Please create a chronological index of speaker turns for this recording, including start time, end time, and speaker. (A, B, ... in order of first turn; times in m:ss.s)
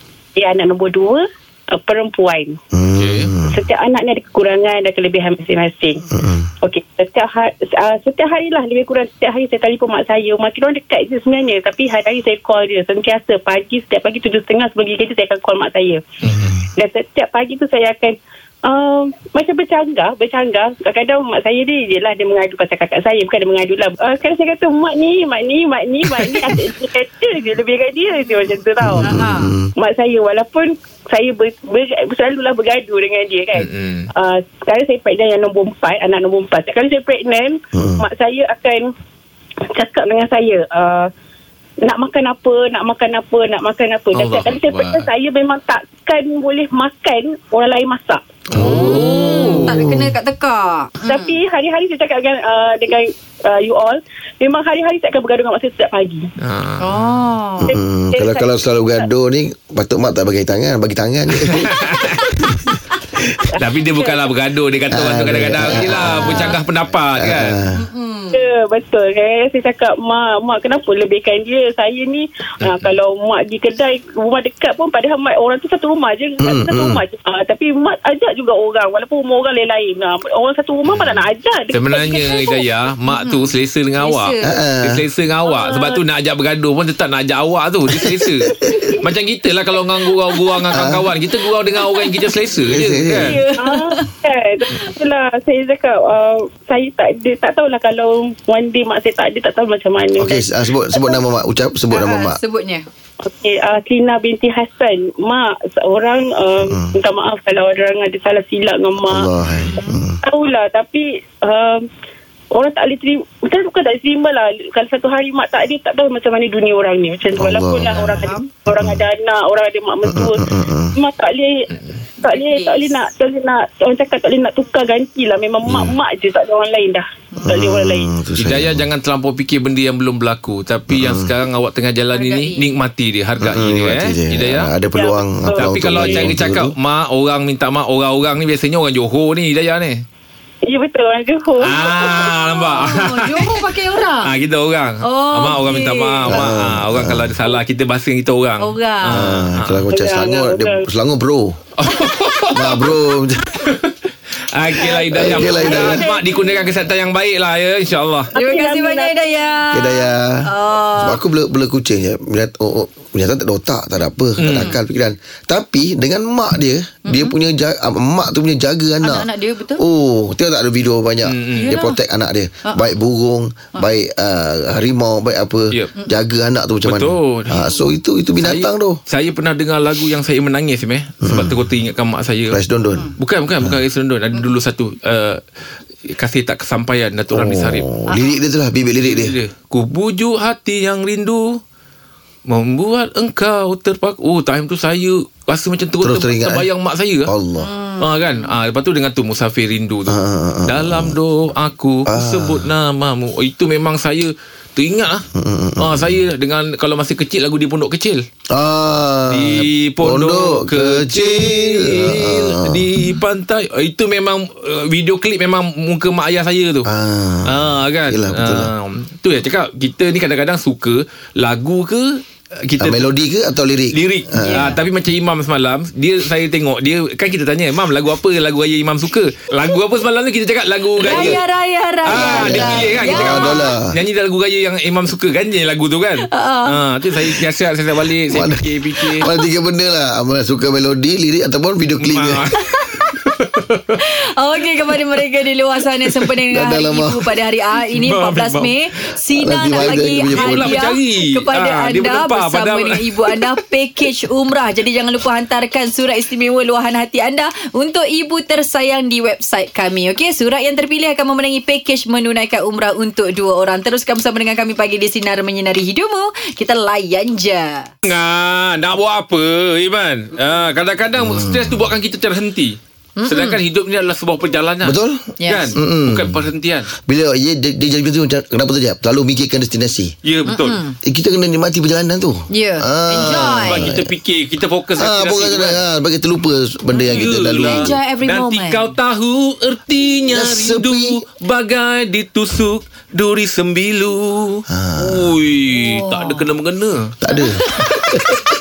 0:00.3-0:02.6 A
0:02.7-0:03.7 B
0:02.9-0:03.3 C
0:03.4-0:06.0 A
0:06.1-0:06.5 B
0:06.6-0:16.0 A
0:16.2-0:16.5 C
0:16.3-0:16.6 B
0:16.8-0:29.2 A
0:28.8-0:29.7 B
0:29.0-0:29.5 D
0:29.8-0:38.9 A
0:33.5-0:34.1 C
0:37.7-0:38.0 B
0:39.7-0:41.1 A
0:41.8-0:48.2 A
0:44.1-0:45.1 C
0:48.5-0:50.1 B
0:48.5-0:49.9 C
0:48.6-0:51.4 D
0:51.0-0:56.3 A
0:56.4-0:57.2 C
0:56.8-0:57.7 D
0:57.6-0:58.5 A
0:57.6-1:02.6 B
1:01.4-1:02.5 C
1:03.5-1:07.5 C
1:03.8-1:04.2 A
1:04.9-1:06.6 B
1:05.9-1:06.6 D
1:07.1-1:07.8 B
1:07.7-1:08.4 D
1:08.3-1:22.6 A
1:12.6-1:12.9 C
1:16.4-1:17.0 B
1:20.8-1:33.4 C
1:23.1-1:24.6 D
1:24.4-1:25.0 B
1:25.5-1:26.0 A
1:27.9-1:28.9 B
1:30.7-1:31.1 B
1:31.8-1:32.1 D
1:32.7-1:33.4 B
1:33.3-1:34.1 D
1:33.5-1:41.1 A
1:40.2-1:42.4 B
1:41.9-1:42.8 D
1:43.2-1:49.3 A
1:46.6-1:46.9 B
1:49.1-1:50.2 B
1:49.7-1:50.0 D
1:50.2-1:51.8 A
1:52.5-2:01.7 A
1:57.4-1:59.0 B
1:58.2-1:58.5 D
2:00.0-2:00.9 B
2:02.2-2:08.1 A
2:02.2-2:02.9 D
2:05.6-2:06.0 B
2:07.4-2:08.8 B
2:08.4-2:14.7 C
2:10.9-2:11.3 B
2:12.1-2:12.7 D
2:13.4-2:16.7 B
2:14.9-2:16.2 A
2:15.6-2:20.0 C
2:20.6-2:22.3 A
2:21.6-2:23.6 C
2:21.9-2:24.3 D
2:24.2-2:29.9 C
2:25.0-2:26.4 D
2:26.3-2:27.4 B
2:28.6-2:29.2 D
2:29.1-2:31.6 B
2:29.9-2:30.8 A
2:31.8-2:33.0 C
2:32.5-2:33.6 B
2:33.6-2:33.9 C
2:34.5-2:38.3 C
2:34.8-2:36.6 A
2:35.1-2:36.0 B
2:35.2-2:36.3 D
2:38.3-2:39.2 A
2:38.3-2:41.2 D
2:39.7-2:40.4 B
2:41.0-2:59.0 B
2:44.4-2:44.8 C
2:47.0-2:47.3 D
2:49.0-2:49.8 D
2:51.2-2:51.7 C
2:51.5-2:52.0 D
2:56.8-2:57.6 C
2:58.4-3:02.6 C
3:01.2-3:01.6 B
3:02.5-3:03.1 B
3:03.2-3:05.4 C
3:06.1-3:07.9 C
3:07.3-3:09.4 B
3:08.1-3:08.4 D
3:09.0-3:11.6 C
3:12.5-3:17.3 C
3:16.0-3:16.7 B
3:17.2-3:17.7 B
3:17.6-3:18.5 D
3:18.0-3:25.2 C
3:20.1-3:21.2 B
3:22.1-3:22.7 B
3:25.3-3:26.2 B
3:25.8-3:28.2 C
3:28.5-3:33.2 B
3:29.3-3:36.9 C
3:36.8-3:38.7 B
3:37.5-3:43.1 C
3:42.8-3:44.7 B
3:43.9-3:51.4 C
3:44.4-3:44.8 D
3:51.0-3:53.7 D
3:51.0-3:51.4 B
3:52.0-3:59.2 C
3:52.1-3:53.9 B
3:56.2-3:57.3 D
3:58.3-4:02.4 B
4:02.0-4:02.6 C
4:02.7-4:03.1 D
4:03.2-4:04.0 C
4:04.0-4:27.9 D
4:06.5-4:07.3 B
4:07.9-4:08.7 C
4:09.3-4:10.8 B
4:09.9-4:13.6 C
4:28.0-4:36.9 C
4:31.2-4:31.9 B
4:33.2-4:33.6 D
4:34.8-4:40.1 B
4:35.4-4:35.7 D
4:40.2-4:40.8 C
4:40.5-4:41.0 D
4:41.0-4:44.1 B
4:42.5-4:43.9 D
4:43.6-4:45.8 C
4:45.0-4:47.9 B
4:46.9-4:48.9 D
4:47.1-4:57.1 C
4:50.3-4:51.2 B
4:54.7-4:55.4 B
4:55.7-4:56.5 D
4:57.2-4:58.4 B
4:57.3-4:58.2 D